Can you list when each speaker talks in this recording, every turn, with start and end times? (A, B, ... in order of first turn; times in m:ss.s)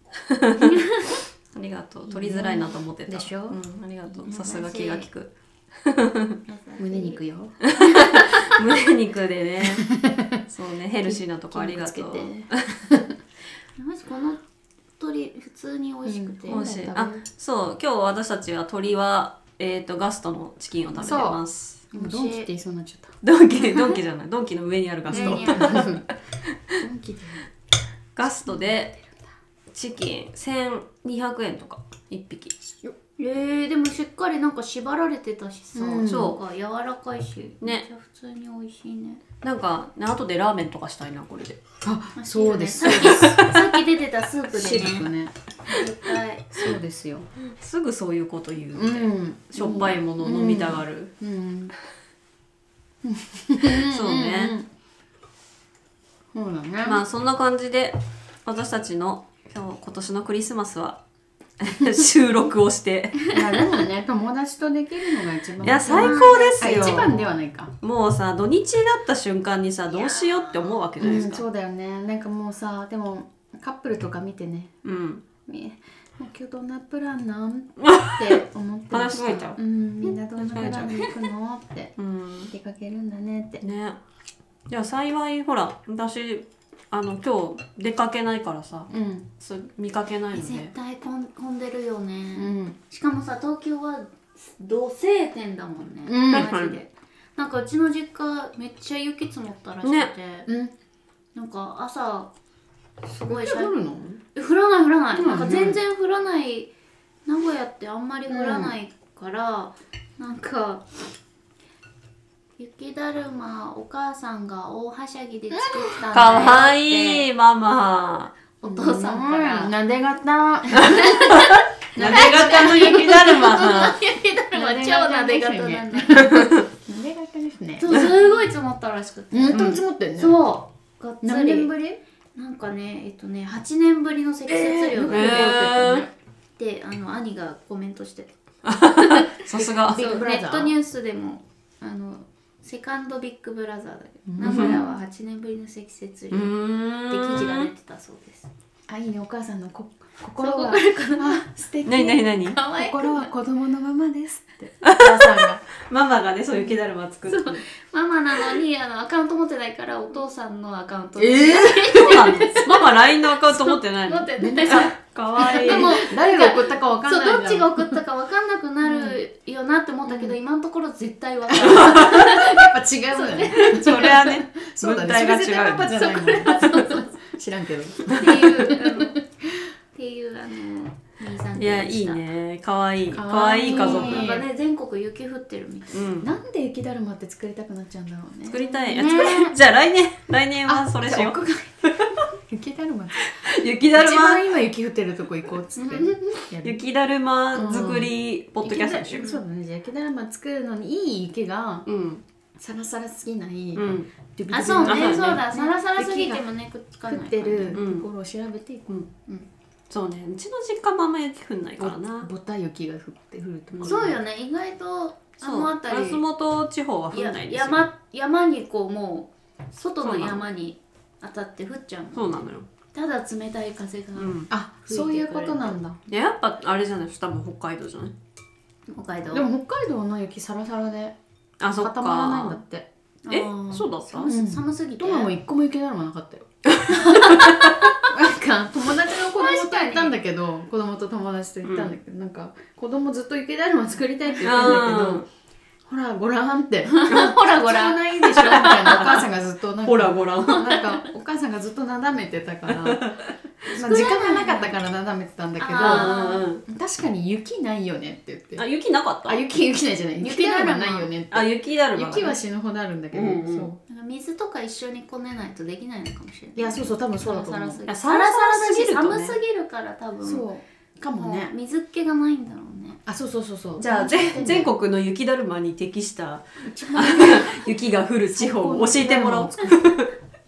0:00.2-0:06.4 A
0:00.6-0:01.1 B
0:02.1-0:03.6 C
0:04.3-0:05.1 B
0:06.5-0:07.2 B
0:06.8-0:07.6 C
0:07.6-0:09.9 A
0:08.0-0:08.2 B
0:09.8-0:10.4 C
0:10.5-0:12.8 A
0:11.0-0:13.1 C
0:13.8-0:14.4 B
0:15.0-0:16.7 B
0:16.1-0:17.2 C
0:16.5-0:21.8 A
0:21.0-0:23.2 C
0:21.9-0:22.5 B
0:23.2-0:26.0 A
0:23.6-0:24.0 B
0:25.1-0:26.1 C
0:25.1-0:25.9 B
0:26.8-0:27.4 C
0:28.2-0:29.0 A
0:29.7-0:32.5 A
0:33.2-0:39.2 B
0:35.8-0:36.4 C
0:36.1-0:36.4 A
0:39.4-0:41.6 A
0:41.8-0:43.6 C
0:42.2-0:45.1 B
0:42.8-0:43.5 A
0:44.5-0:45.3 C
0:45.7-0:46.5 B
0:46.5-0:47.3 C
0:47.5-0:51.1 A
0:48.7-0:51.7 C
0:53.0-0:54.7 C
0:53.8-0:54.5 A
0:56.3-0:57.0 C
0:56.8-1:01.0 A
1:01.6-1:03.3 A
1:03.3-1:07.7 C
1:05.6-1:07.3 A
1:05.9-1:07.4 B
1:07.8-1:11.4 A
1:09.9-1:10.9 B
1:11.0-1:14.7 C
1:14.8-1:15.2 A
1:15.5-1:21.9 C
1:17.8-1:19.6 A
1:20.4-1:21.0 A
1:20.6-1:21.1 B
1:22.0-1:22.5 A
1:22.5-1:23.6 C
1:23.6-1:24.0 A
1:24.7-1:30.7 A
1:28.9-1:29.3 C
1:30.3-1:40.5 B
1:32.4-1:32.8 C
1:36.0-1:36.5 C
1:36.3-1:36.8 A
1:39.8-1:40.1 A
1:40.5-1:40.7 C
1:41.4-1:42.3 B
1:43.1-1:44.2 C
1:43.2-1:43.8 B
1:44.3-1:46.7 B
1:45.1-1:45.7 C
1:45.3-1:45.8 A
1:47.3-1:50.9 B
1:48.3-1:48.8 C
1:52.6-1:57.2 B
1:55.5-1:56.3 C
1:56.1-1:58.4 A
1:58.6-1:59.8 B
1:58.6-2:01.3 C
2:00.7-2:06.4 B
2:00.8-2:04.0 A
2:01.9-2:03.5 C
2:04.5-2:08.2 C
2:06.1-2:06.6 A
2:07.8-2:11.7 B
2:09.3-2:10.4 C
2:09.5-2:09.8 A
2:11.2-2:12.0 C
2:12.4-2:15.7 B
2:14.5-2:16.1 C
2:15.0-2:16.1 A
2:16.6-2:18.3 B
2:18.6-2:20.1 A
2:19.0-2:19.3 B
2:19.6-2:20.8 C
2:19.9-2:26.6 B
2:24.3-2:24.8 C
2:24.4-2:24.8 A
2:26.3-2:27.7 A
2:27.1-2:28.5 B
2:28.9-2:35.6 C
2:30.4-2:31.4 B
2:31.8-2:32.6 A
2:32.4-2:33.3 B
2:34.8-2:37.6 A
2:37.3-2:54.2 B
2:41.2-2:42.2 C
2:41.9-2:46.0 A
2:44.4-2:48.0 C
2:48.8-2:49.2 C
2:50.1-2:50.4 C
2:51.5-2:59.2 C
2:51.6-2:52.4 A
2:53.6-2:56.9 A
2:55.9-2:57.1 B
2:58.1-2:58.4 A
2:58.1-2:59.2 B
2:59.9-3:02.2 B
3:01.6-3:04.4 A
3:03.1-3:04.4 C
3:03.6-3:06.0 B
3:05.9-3:06.3 A
3:06.2-3:08.8 C
3:08.5-3:12.2 A
3:08.9-3:09.6 B
3:10.6-3:13.3 C
3:13.3-3:14.5 A
3:13.9-3:16.8 C
3:15.8-3:16.2 B
3:16.6-3:19.3 A
3:17.5-3:21.9 C
3:21.9-3:22.2 A
3:22.6-3:26.5 C
3:23.8-3:24.1 A
3:24.5-3:27.8 B
3:24.8-3:25.4 A
3:27.1-3:28.9 C
3:27.7-3:28.1 A
3:29.9-3:32.3 A
3:31.8-3:34.2 C
3:33.7-3:34.1 A
3:33.8-3:36.2 B
3:35.4-3:37.8 A
3:37.1-3:45.7 B
3:40.0-3:40.4 A
3:42.1-3:42.6 A
3:44.2-3:44.5 A
3:44.5-3:46.0 C
3:46.1-3:48.1 A
3:48.9-3:49.5 B
3:49.3-3:51.2 C
3:51.6-3:52.6 A
3:51.8-3:52.9 C
3:53.2-3:55.3 B
3:53.3-3:54.3 A
3:54.2-4:05.2 C
3:56.7-3:57.7 A
3:56.9-3:58.0 B
3:59.4-4:00.2 B
4:01.6-4:01.9 A
4:04.3-4:04.8 B
4:04.4-4:05.3 A
4:05.9-4:13.0 C
4:06.9-4:09.2 B
4:08.5-4:09.3 A
4:09.8-4:10.7 A
4:10.5-4:11.0 B
4:12.8-4:13.3 A
4:13.7-4:14.8 B
4:13.7-4:18.6 C
4:15.6-4:16.5 B
4:15.8-4:16.6 A
4:18.6-4:19.4 A
4:19.2-4:23.8 C
4:20.2-4:21.1 B
4:21.3-4:22.4 A
4:23.1-4:23.7 A
4:23.9-4:30.5 B
4:26.6-4:27.8 C
4:27.9-4:29.4 A
4:30.2-4:31.5 C
4:31.1-4:33.0 B
4:33.1-4:34.7 C
4:33.8-4:40.1 A
4:36.6-4:37.7 C
4:36.8-4:37.2 B
4:38.3-4:39.9 C